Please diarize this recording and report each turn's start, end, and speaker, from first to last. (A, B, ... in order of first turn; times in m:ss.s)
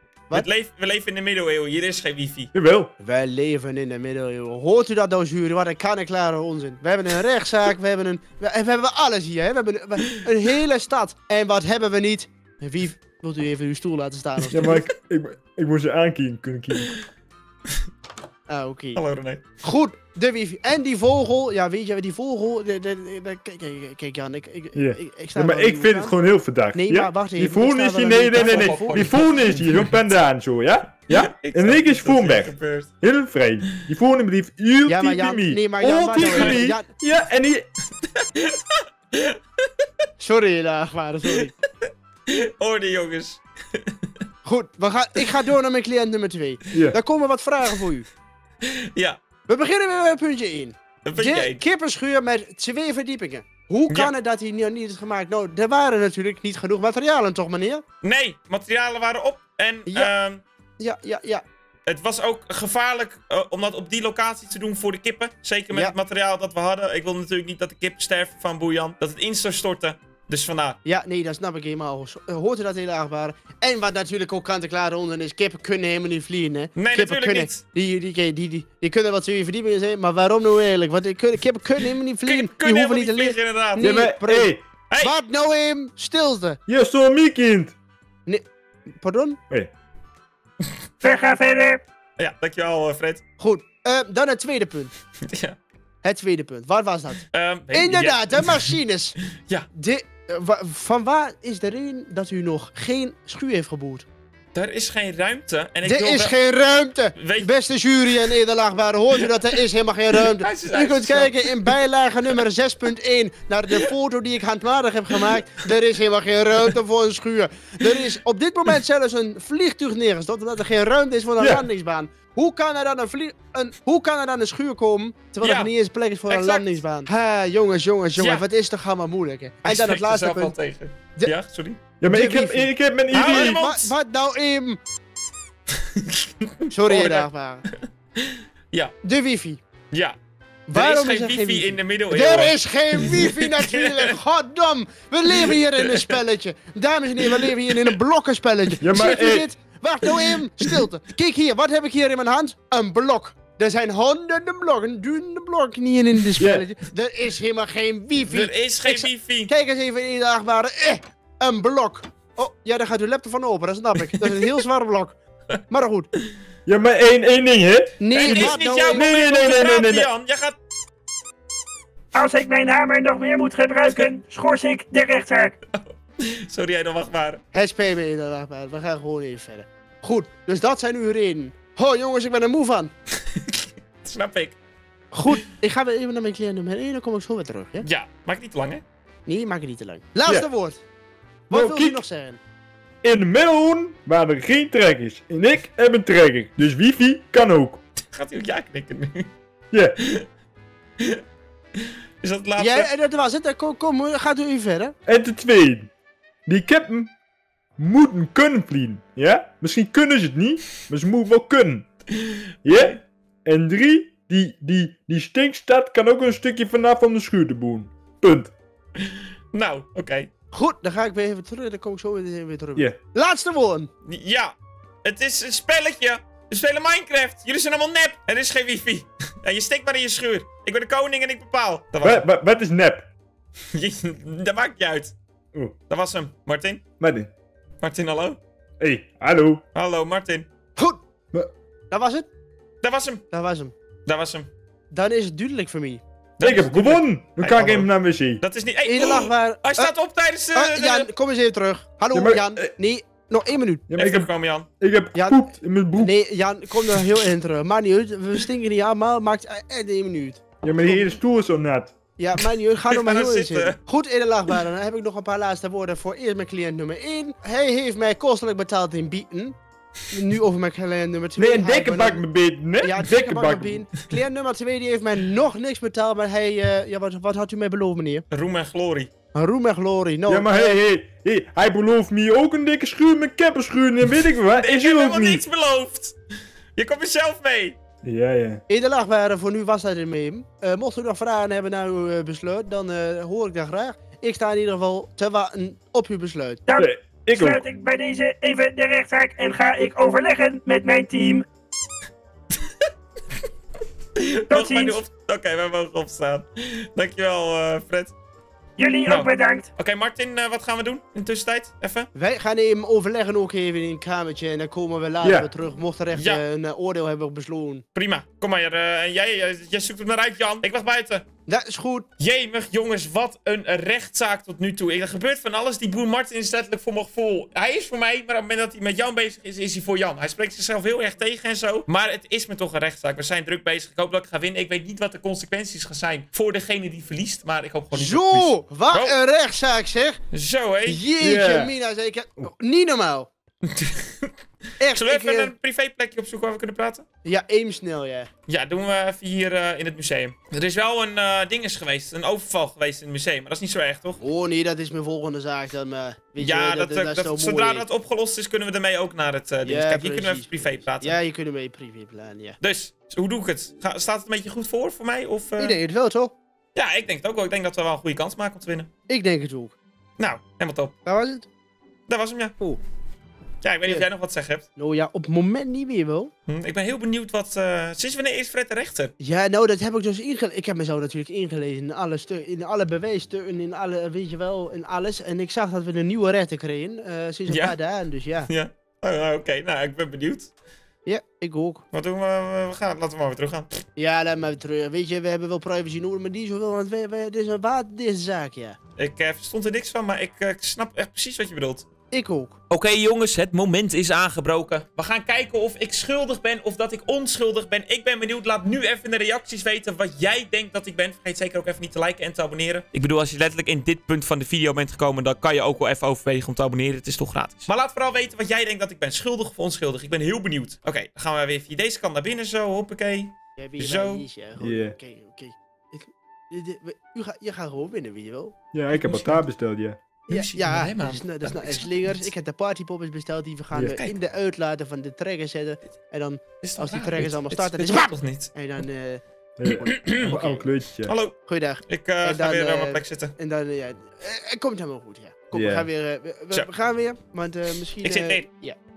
0:00.3-0:02.5 A
0:02.5-0:02.9 B
0:03.0-0:14.8 C
0:14.5-0:17.0 B
0:18.5-0:19.0 C
0:18.9-0:19.4 A
0:19.6-0:26.2 C
0:24.7-0:37.7 B
0:26.7-0:29.3 C
0:28.3-0:30.0 A
0:31.1-0:32.9 A
0:34.8-0:36.9 C
0:36.2-0:36.6 A
0:38.0-0:39.8 A
0:40.2-0:41.5 C
0:42.3-0:44.1 A
0:44.4-0:48.1 C
0:46.7-0:47.0 B
0:48.6-0:49.2 A
0:49.5-0:57.8 C
0:51.0-0:51.6 A
0:58.0-1:00.4 A
0:59.9-1:00.1 C
1:00.8-1:01.4 C
1:01.8-1:10.8 A
1:10.8-1:26.6 C
1:16.7-1:17.6 A
1:22.2-1:24.0 A
1:23.8-1:24.6 B
1:26.7-1:27.7 B
1:28.2-1:29.4 C
1:31.0-1:31.8 D
1:32.2-1:33.2 A
1:33.4-1:34.9 C
1:35.2-1:35.6 A
1:36.0-1:39.1 C
1:37.3-1:38.7 A
1:39.4-1:39.7 A
1:39.7-1:44.0 C
1:44.5-1:46.3 A
1:45.8-2:10.5 C
1:47.1-1:47.5 A
1:50.2-1:51.7 A
2:01.4-2:01.6 B
2:05.4-2:05.7 A
2:06.3-2:06.7 A
2:08.2-2:08.4 A
2:09.6-2:11.8 A
2:12.0-2:13.6 B
2:12.1-2:14.8 C
2:13.1-2:13.9 A
2:15.8-2:18.9 A
2:16.7-2:17.6 C
2:19.0-2:19.6 C
2:20.7-2:45.2 C
2:20.7-2:24.1 A
2:25.3-2:26.1 A
2:28.8-2:29.5 B
2:36.4-2:36.6 B
2:38.2-2:39.5 A
2:45.7-2:46.1 C
2:46.6-2:50.1 B
2:48.0-2:49.1 C
2:48.1-2:50.6 A
2:52.1-2:55.6 D
2:55.7-2:57.4 A
2:57.5-3:02.9 C
3:03.2-3:04.6 A
3:05.1-3:07.8 C
3:07.8-3:08.8 A
3:09.2-3:10.8 C
3:11.5-3:12.4 C
3:11.5-3:12.0 B
3:13.0-3:17.8 B
3:18.0-3:19.3 A
3:19.7-3:20.0 B
3:20.0-3:20.3 A
3:21.8-3:22.9 A
3:22.6-3:24.9 C
3:25.0-3:25.9 B
3:26.4-3:27.1 B
3:27.8-3:31.9 B
3:32.6-3:38.5 B
3:39.0-3:40.3 A
3:40.5-3:43.9 C
3:44.0-3:52.2 A
3:52.0-3:53.1 B
3:53.7-3:55.1 A
3:55.9-3:56.8 A
3:57.0-3:57.3 B
3:57.8-3:58.4 A
3:58.8-3:59.6 B
3:59.7-4:00.5 A
4:01.9-4:02.3 C
4:02.8-4:03.2 A
4:03.3-4:03.7 C
4:04.0-4:04.5 A
4:04.9-4:06.0 C
4:06.4-4:11.1 A
4:06.4-4:08.4 B
4:08.8-4:09.9 C
4:10.5-4:13.9 C
4:12.1-4:12.7 B
4:13.9-4:16.1 B
4:13.9-4:14.7 A
4:15.1-4:21.2 C
4:20.6-4:21.9 B
4:22.2-4:29.6 C
4:22.9-4:23.8 A
4:30.1-4:32.2 C
4:31.4-4:33.8 B
4:32.8-4:38.2 C
4:38.3-4:39.1 A
4:39.3-4:40.7 C
4:40.3-4:45.4 B
4:44.5-4:46.2 A
4:46.8-4:47.8 A
4:48.0-4:48.6 B
4:48.7-4:56.6 C
4:56.7-5:01.4 D
4:56.8-4:57.6 B
5:04.2-5:08.1 A
5:04.5-5:05.0 D
5:08.8-5:09.7 D
5:09.1-5:12.1 A
5:12.1-5:17.8 C
5:15.2-5:15.5 B
5:16.1-5:16.4 A
5:17.9-5:21.2 A
5:21.5-5:22.1 C
5:22.2-5:39.1 A
5:37.9-5:40.2 C
5:40.3-5:41.0 A
5:40.8-5:43.3 C
5:41.2-5:41.7 B
5:43.6-5:44.3 A
5:44.8-5:45.5 C
5:44.9-5:47.0 A
5:47.2-5:48.3 C
5:48.5-5:54.2 A
5:54.2-5:57.8 C
5:56.4-6:01.2 A
5:59.6-6:02.6 C
6:02.6-6:05.8 A
6:05.6-6:06.3 C
6:06.7-6:08.9 A
6:09.1-6:09.8 C
6:10.2-6:10.9 A
6:11.0-6:11.5 C
6:12.1-6:12.6 A
6:13.6-6:14.6 A
6:14.8-6:16.3 C
6:16.5-6:19.1 A
6:19.2-6:28.5 C
6:27.5-6:27.7 A
6:28.5-6:30.5 A
6:31.0-6:31.8 C
6:31.9-6:33.8 A
6:34.0-6:38.8 C
6:39.0-6:41.8 A
6:42.1-6:42.6 C
6:42.7-7:04.2 A
7:03.6-7:08.6 C
7:04.6-7:04.9 B
7:08.7-7:10.0 B
7:08.9-7:09.4 A
7:10.3-7:12.3 A
7:10.3-7:20.6 C
7:13.7-7:14.0 B
7:16.6-7:18.5 A
7:19.6-7:21.1 B
7:19.8-7:20.3 A
7:21.0-7:23.3 A
7:21.4-7:28.8 C
7:25.5-7:25.9 B
7:28.0-7:28.4 A